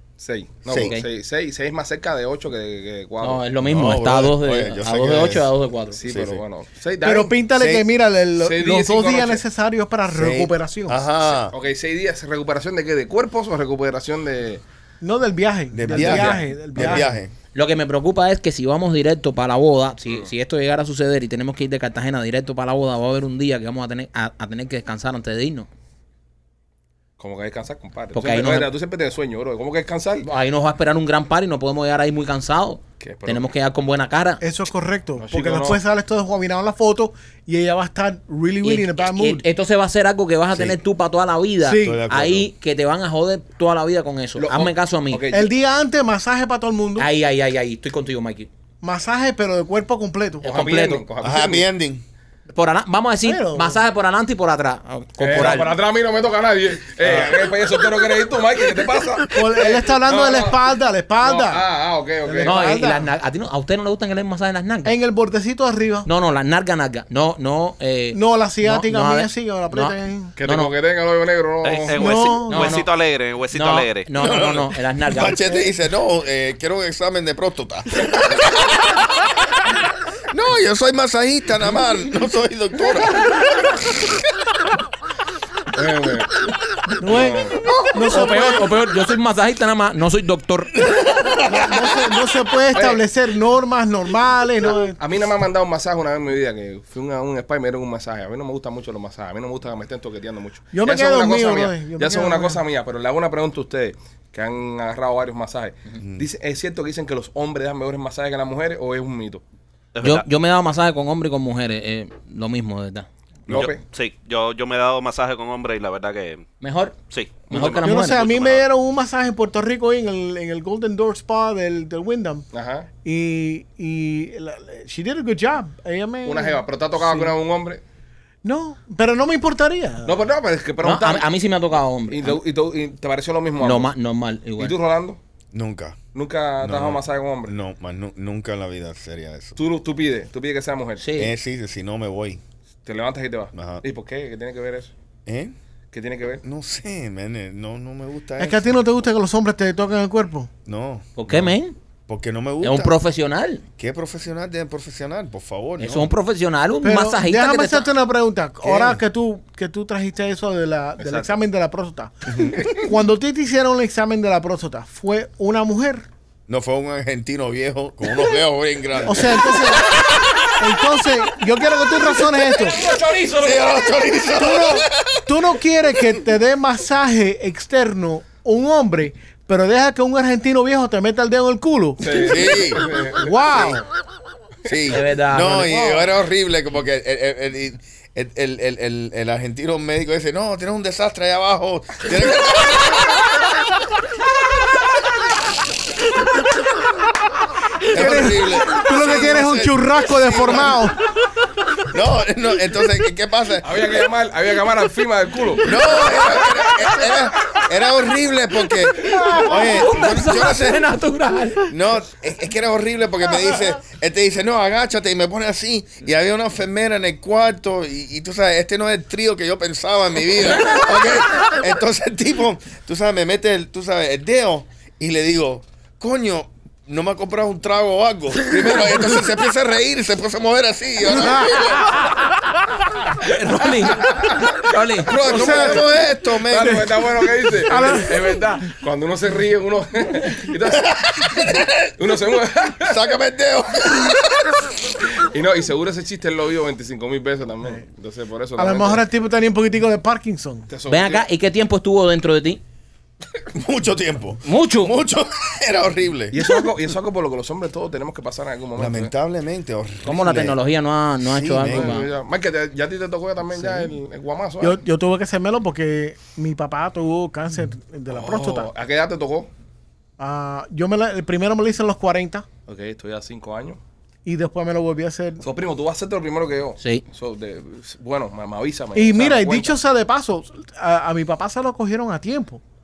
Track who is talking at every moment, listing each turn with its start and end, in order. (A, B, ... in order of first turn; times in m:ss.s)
0:00.2-0:03.4 A
0:00.6-0:00.9 B
0:00.8-0:01.0 C
0:03.2-0:06.0 C
0:03.6-0:05.5 B
0:05.9-0:07.4 A
0:06.0-0:06.4 B
0:07.0-0:11.0 D
0:07.6-0:07.9 B
0:08.4-0:09.4 A
0:10.1-0:11.5 B
0:11.3-0:14.6 A
0:15.0-0:17.1 D
0:15.7-0:17.3 B
0:15.9-0:17.0 A
0:17.5-0:25.7 C
0:27.2-0:30.3 A
0:28.1-0:28.7 C
0:30.2-0:34.4 C
0:33.0-0:33.4 A
0:34.4-0:39.4 D
0:35.2-0:35.8 A
0:38.6-0:45.2 C
0:40.5-0:40.8 B
0:41.6-0:42.0 D
0:41.8-0:42.5 B
0:44.4-0:45.5 A
0:45.3-0:47.1 D
0:47.0-0:48.5 C
0:48.8-0:50.5 D
0:50.4-0:51.0 C
0:50.4-0:51.7 A
0:51.2-0:52.0 B
0:52.5-0:55.7 C
0:53.2-0:53.8 D
0:55.2-1:00.6 A
0:59.3-1:01.6 D
1:01.2-1:02.8 A
1:02.2-1:03.1 D
1:02.4-1:04.9 C
1:04.8-1:06.1 D
1:06.0-1:10.7 C
1:08.1-1:10.3 D
1:10.4-1:12.1 A
1:11.6-1:14.1 E
1:11.9-1:12.8 D
1:12.5-1:12.9 C
1:13.5-1:15.4 C
1:14.2-1:19.2 B
1:20.3-1:24.2 B
1:25.7-1:26.4 A
1:27.0-1:28.7 D
1:27.0-1:27.6 A
1:27.6-1:28.0 B
1:28.1-1:30.8 C
1:30.8-1:32.1 B
1:31.5-1:35.0 D
1:32.7-1:33.0 A
1:34.7-1:49.4 A
1:40.7-1:42.6 D
1:46.0-1:46.2 B
1:49.9-1:50.2 E
1:50.0-1:53.1 C
1:53.5-1:53.8 A
1:53.5-1:56.5 E
1:56.6-1:58.4 C
1:57.1-1:58.3 E
1:57.8-2:02.4 D
2:02.5-2:02.9 A
2:03.0-2:07.3 D
2:06.2-2:07.8 A
2:08.4-2:10.1 D
2:10.0-2:11.3 A
2:10.8-2:12.4 C
2:12.1-2:13.9 A
2:13.6-2:14.7 C
2:14.6-2:15.2 A
2:15.5-2:16.0 B
2:16.1-2:17.5 A
2:16.6-2:19.6 B
2:19.6-2:21.0 A
2:21.0-2:21.3 C
2:21.2-2:22.4 B
2:22.8-2:24.9 A
2:23.5-2:23.8 B
2:25.2-2:25.5 B
2:25.9-2:26.4 A
2:26.4-2:28.8 B
2:28.4-2:30.5 D
2:30.6-2:31.5 B
2:31.2-2:31.7 C
2:32.1-2:33.0 B
2:32.6-2:33.6 C
2:33.8-2:36.1 B
2:35.8-2:37.9 C
2:36.8-2:46.0 D
2:38.6-2:39.0 B
2:41.0-2:41.4 A
2:42.3-2:42.7 B
2:46.5-2:49.8 B
2:49.0-2:50.0 D
2:50.6-2:52.8 D
2:52.6-2:53.8 C
2:53.4-2:55.3 B
2:54.3-3:02.4 D
3:02.0-3:03.6 A
3:02.2-3:02.9 B
3:03.1-3:03.8 D
3:04.6-3:13.2 B
3:04.9-3:06.0 C
3:17.9-3:20.9 B
3:17.9-3:21.0 D
3:21.9-3:23.8 B
3:23.6-3:27.2 A
3:25.6-3:30.9 B
3:29.0-3:31.7 C
3:31.7-3:52.0 B
3:51.1-3:51.8 D
3:53.2-3:55.1 C
3:54.0-3:54.4 A
3:55.0-3:56.9 B
3:55.1-4:03.1 A
3:55.2-3:55.9 D
3:56.6-3:56.9 D
3:57.6-3:58.4 D
4:00.8-4:01.9 B
4:02.8-4:04.7 B
4:05.1-4:09.0 A
4:08.6-4:10.7 D
4:10.7-4:11.3 A
4:10.9-4:12.6 C
4:13.5-4:16.5 B
4:14.4-4:14.9 C
4:16.3-4:19.1 A
4:18.8-4:20.6 B
4:20.0-4:22.1 C
4:21.2-4:22.0 B
4:21.6-4:24.8 A
4:24.6-4:28.7 D
4:28.1-4:29.5 A
4:30.2-4:32.4 D
4:32.7-4:33.8 A
4:34.2-4:35.4 D
4:35.4-4:39.8 A
4:38.9-4:42.6 D